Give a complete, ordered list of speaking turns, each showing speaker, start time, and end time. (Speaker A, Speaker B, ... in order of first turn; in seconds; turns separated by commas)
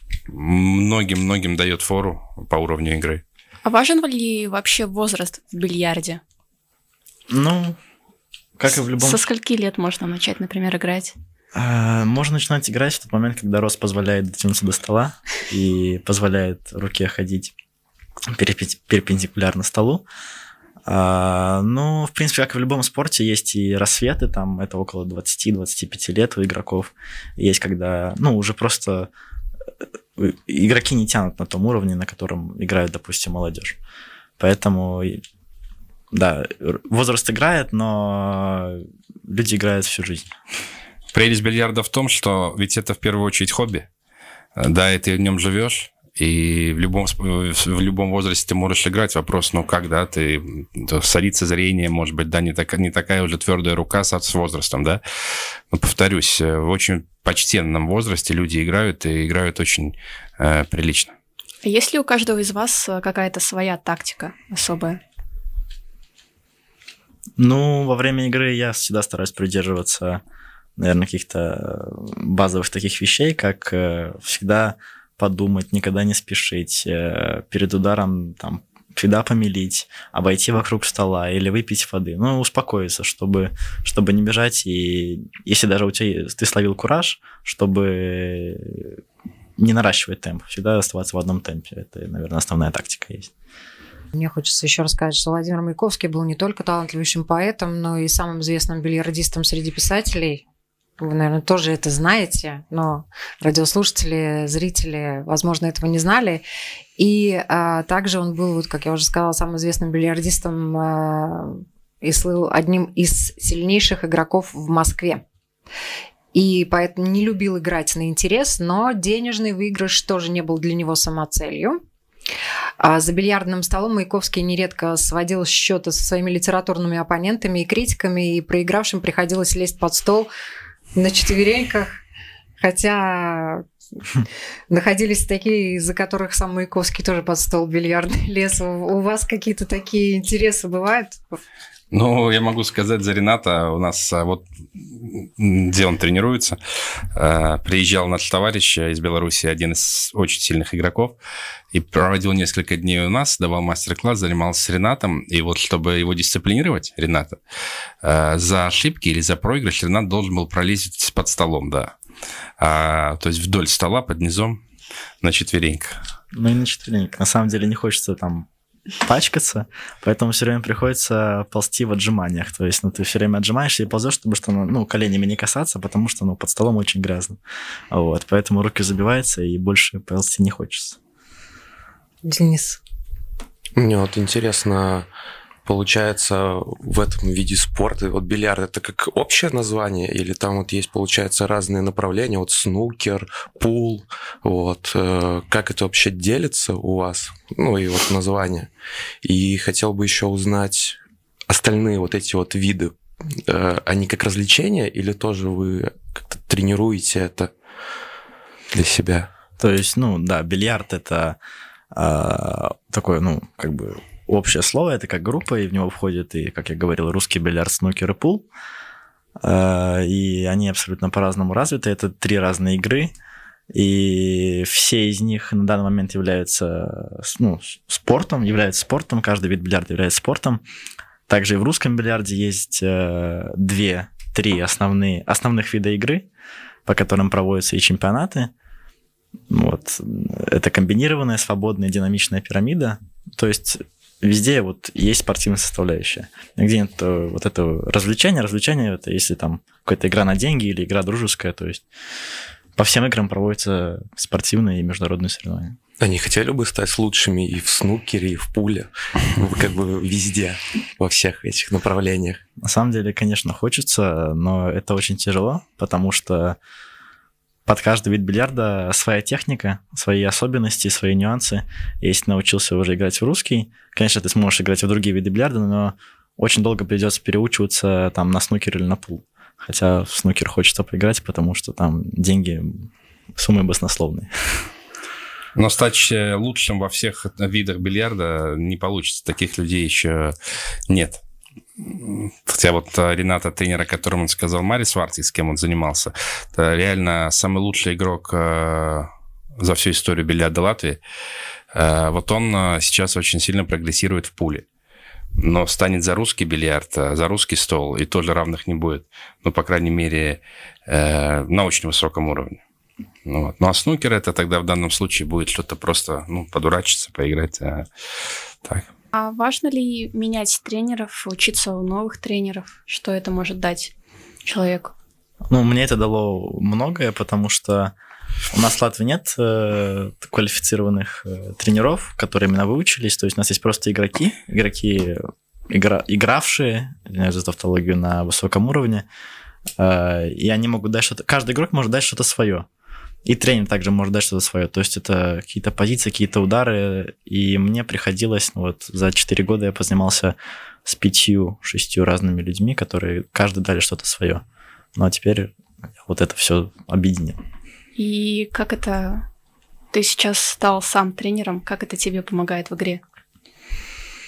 Speaker A: 0.3-3.2, Speaker B: 3.6-6.2, Speaker C: 7.3-7.8, Speaker C: 8.6-9.2, Speaker B: 9.0-11.1, Speaker C: 11.6-17.5, Speaker C: 18.3-20.1, Speaker C: 20.9-29.1, Speaker C: 30.1-33.8, Speaker C: 34.4-35.2, Speaker C: 36.1-40.3, Speaker A: 41.1-43.9, Speaker A: 44.6-55.0, Speaker A: 55.7-61.1, Speaker B: 61.6-65.0, Speaker C: 67.4-70.2, Speaker C: 70.8-89.0, Speaker C: 89.6-93.3, Speaker D: 94.1-100.4, Speaker D: 101.0-106.4, Speaker D: 107.0-115.2, Speaker D: 116.3-121.8, Speaker D: 122.8-130.3, Speaker D: 130.9-132.0, Speaker D: 132.6-133.6, Speaker D: 134.7-141.4, Speaker A: 141.9-146.6, Speaker A: 147.1-151.2, Speaker A: 151.7-157.4, Speaker A: 158.0-161.9, Speaker A: 162.6-164.6, Speaker A: 165.2-166.0, Speaker C: 166.3-168.5, Speaker C: 169.0-177.4, Speaker C: 177.9-181.0, Speaker D: 182.2-182.8, Speaker E: 183.8-185.1, Speaker E: 185.6-198.7, Speaker E: 199.2-207.5, Speaker E: 208.7-209.3, Speaker C: 209.6-211.4, Speaker C: 211.9-218.5, Speaker C: 219.4-223.1, Speaker C: 223.7-230.6, Speaker C: 231.3-236.3, Speaker C: 236.9-238.5, Speaker C: 239.5-251.8, Speaker C: 252.8-255.8, Speaker E: 256.0-262.4, Speaker C: 262.6-266.6, Speaker C: 267.6-284.7, Speaker A: 285.6-290.4, Speaker A: 290.9-291.2, Speaker A: 291.8-301.0, Speaker A: 301.7-304.6, Speaker A: 305.4-312.6, Speaker A: 313.2-317.9, Speaker B: 319.1-323.9, Speaker B: 324.4-324.9, Speaker C: 325.5-327.9, Speaker C: 328.5-339.1, Speaker C: 339.8-342.7, Speaker C: 343.2-354.4, Speaker C: 354.9-355.5, Speaker C: 356.1-357.4, Speaker B: 357.9-359.3, Speaker B: 359.9-363.0